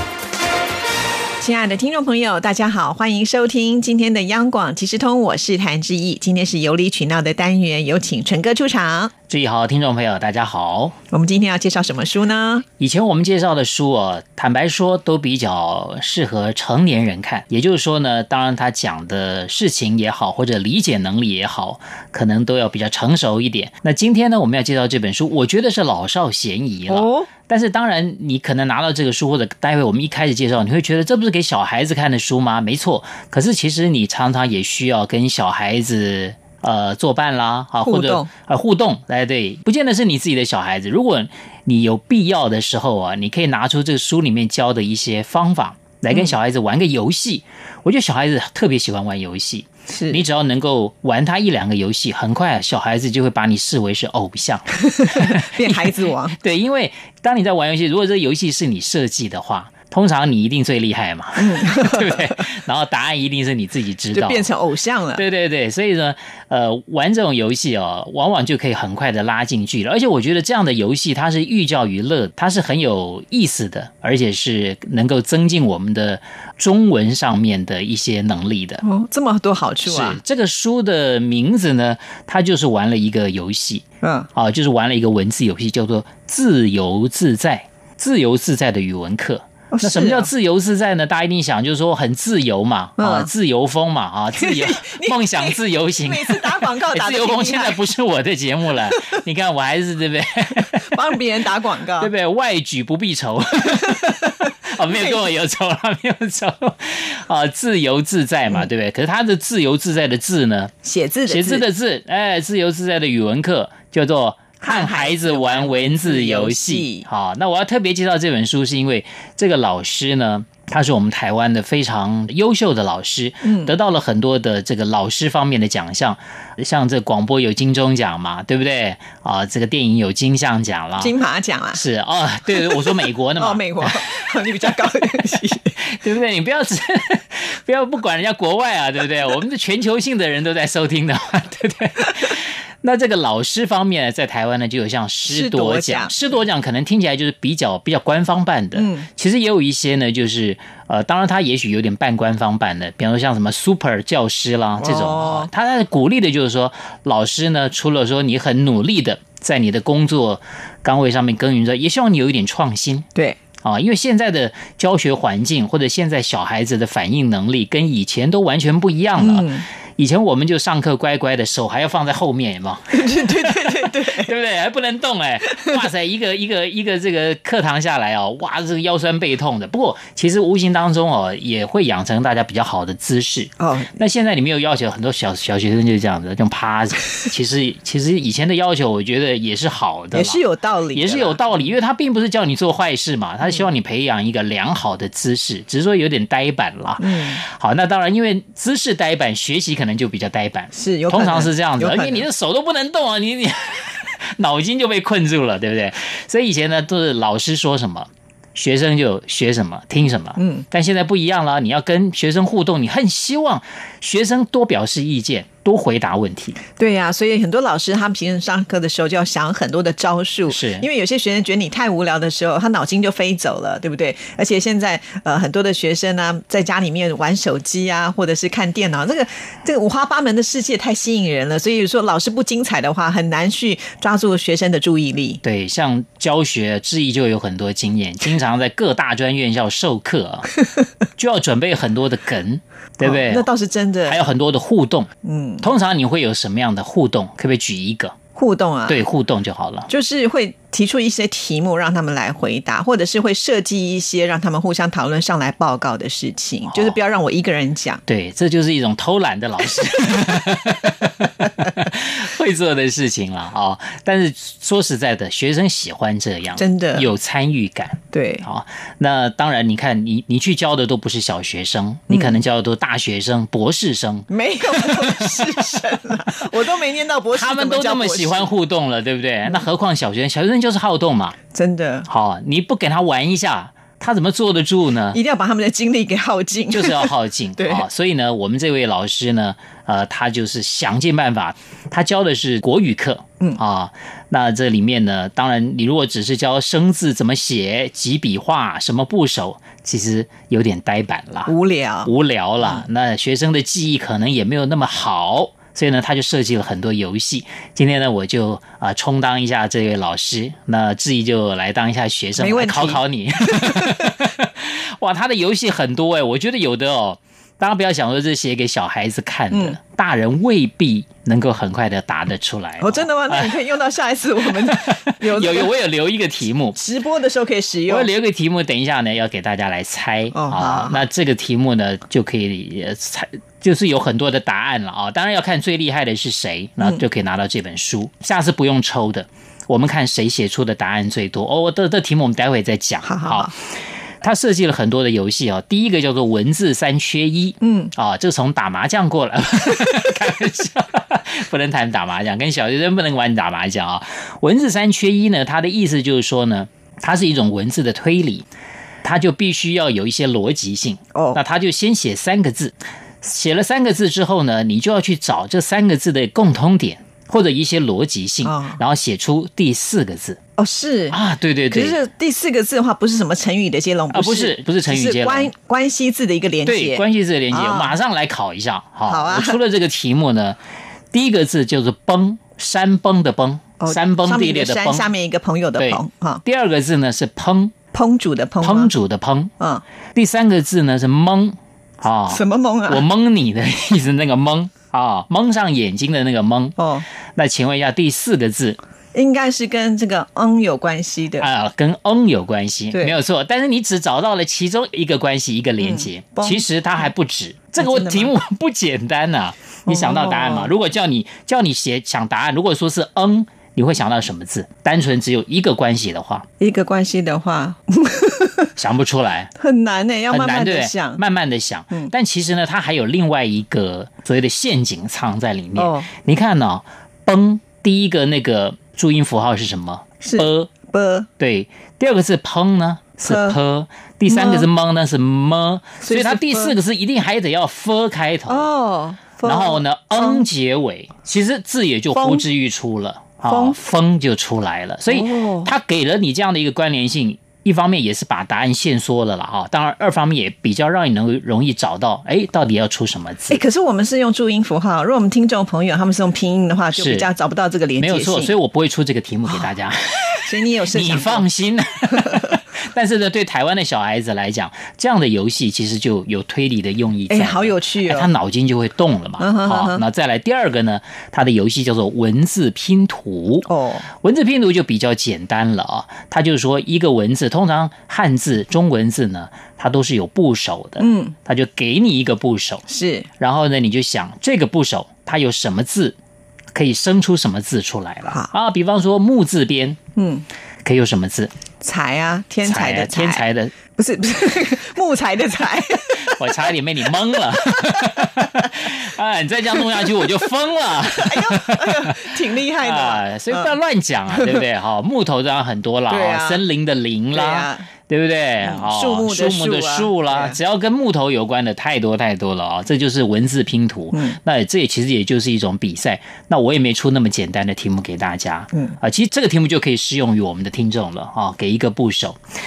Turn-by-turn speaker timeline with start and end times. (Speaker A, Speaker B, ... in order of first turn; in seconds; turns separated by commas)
Speaker A: 1.4-9.1, Speaker B: 9.3-10.9, Speaker A: 11.1-12.7, Speaker B: 12.8-64.5, Speaker A: 26.9-27.3, Speaker A: 37.8-38.3, Speaker A: 49.9-50.2, Speaker A: 54.8-56.4, Speaker A: 61.4-62.4, Speaker A: 64.1-65.2, Speaker B: 65.2-78.8, Speaker A: 78.8-80.2, Speaker B: 79.8-83.8, Speaker A: 84.0-84.3, Speaker B: 84.3-101.0, Speaker A: 89.7-90.3, Speaker A: 93.0-93.3, Speaker A: 94.3-97.8, Speaker A: 100.8-102.1, Speaker B: 102.0-110.7, Speaker A: 104.9-105.2, Speaker A: 110.8-111.6, Speaker B: 111.3-131.1, Speaker A: 114.6-117.1, Speaker A: 123.4-123.7, Speaker A: 131.0-131.8, Speaker B: 131.7-134.8, Speaker A: 132.5-135.8, Speaker B: 135.8-163.1, Speaker A: 145.3-146.1, Speaker A: 148.8-149.1, Speaker A: 154.8-155.5, Speaker B: 163.6-190.4, Speaker A: 169.2-169.7, Speaker A: 172.9-174.3, Speaker A: 175.6-175.8, Speaker A: 183.6-183.9, Speaker A: 190.1-191.4, Speaker B: 190.9-216.6, Speaker A: 197.0-197.4, Speaker A: 200.7-202.3, Speaker A: 210.4-210.7, Speaker A: 216.8-235.4, Speaker B: 220.5-220.9, Speaker B: 235.4-240.5, Speaker B: 241.2-243.5, Speaker A: 243.0-244.2, Speaker B: 244.0-245.1, Speaker A: 245.2-245.7, Speaker B: 245.6-248.2, Speaker A: 248.3-249.0, Speaker B: 248.9-249.9, Speaker A: 249.9-258.0, Speaker B: 256.7-257.0, Speaker B: 258.1-275.9, Speaker A: 266.6-267.1, Speaker A: 268.1-268.5, Speaker A: 272.1-272.4, Speaker A: 274.3-278.5, Speaker B: 277.3-281.4, Speaker A: 281.5-282.1, Speaker B: 282.1-285.2, Speaker A: 285.1-287.9, Speaker B: 286.7-301.5, Speaker A: 301.5-302.1, Speaker B: 302.0-323.7, Speaker A: 312.4-314.0, Speaker A: 319.5-319.8, Speaker A: 322.8-325.7, Speaker B: 324.4-326.8, Speaker A: 326.8-328.1, Speaker B: 327.9-343.6, Speaker A: 330.3-331.1, Speaker A: 343.0-343.5, Speaker B: 344.2-358.4, Speaker A: 347.6-347.9, Speaker B: 359.0-370.4, Speaker A: 361.1-361.4, Speaker A: 368.4-368.8, Speaker A: 370.6-371.2, Speaker B: 371.1-372.0, Speaker A: 371.7-377.9, Speaker B: 374.1-375.5, Speaker B: 376.6-380.6, Speaker A: 379.1-379.6, Speaker B: 381.1-385.1, Speaker A: 383.8-386.4, Speaker B: 385.8-387.7, Speaker A: 387.9-388.9, Speaker B: 388.6-389.5, Speaker A: 389.6-389.8, Speaker B: 390.1-396.8, Speaker A: 392.3-393.0, Speaker A: 396.8-397.1, Speaker B: 397.3-398.8, Speaker A: 399.1-401.5, Speaker B: 401.4-416.4, Speaker A: 402.9-403.2, Speaker A: 405.8-406.7, Speaker A: 407.8-408.3, Speaker A: 409.9-410.7, Speaker A: 416.6-418.7, Speaker B: 418.8-419.5, Speaker A: 419.6-421.2, Speaker B: 420.3-430.7, Speaker A: 425.8-426.1, Speaker A: 430.2-431.3, Speaker B: 431.4-438.7, Speaker A: 433.2-433.6, Speaker A: 434.3-434.7, Speaker A: 436.0-436.8, Speaker A: 438.5-440.4, Speaker B: 439.4-453.6, Speaker A: 442.1-442.4, Speaker A: 443.4-443.8, Speaker A: 445.1-445.7, Speaker A: 453.5-458.5, Speaker B: 456.9-457.3, Speaker B: 458.0-473.7, Speaker A: 460.4-461.5, Speaker A: 467.3-468.3, Speaker A: 469.4-470.0, Speaker A: 473.7-474.1, Speaker B: 474.2-482.8, Speaker A: 481.0-481.3, Speaker A: 482.9-483.3, Speaker B: 483.4-486.1, Speaker B: 486.8-490.0, Speaker A: 490.1-490.4, Speaker B: 490.8-491.5, Speaker A: 491.8-496.5, Speaker B: 492.6-493.8, Speaker B: 496.2-522.4, Speaker A: 497.6-498.6, Speaker A: 501.1-503.8, Speaker A: 504.3-504.6, Speaker A: 506.1-506.6, Speaker A: 507.3-507.9, Speaker A: 508.6-510.6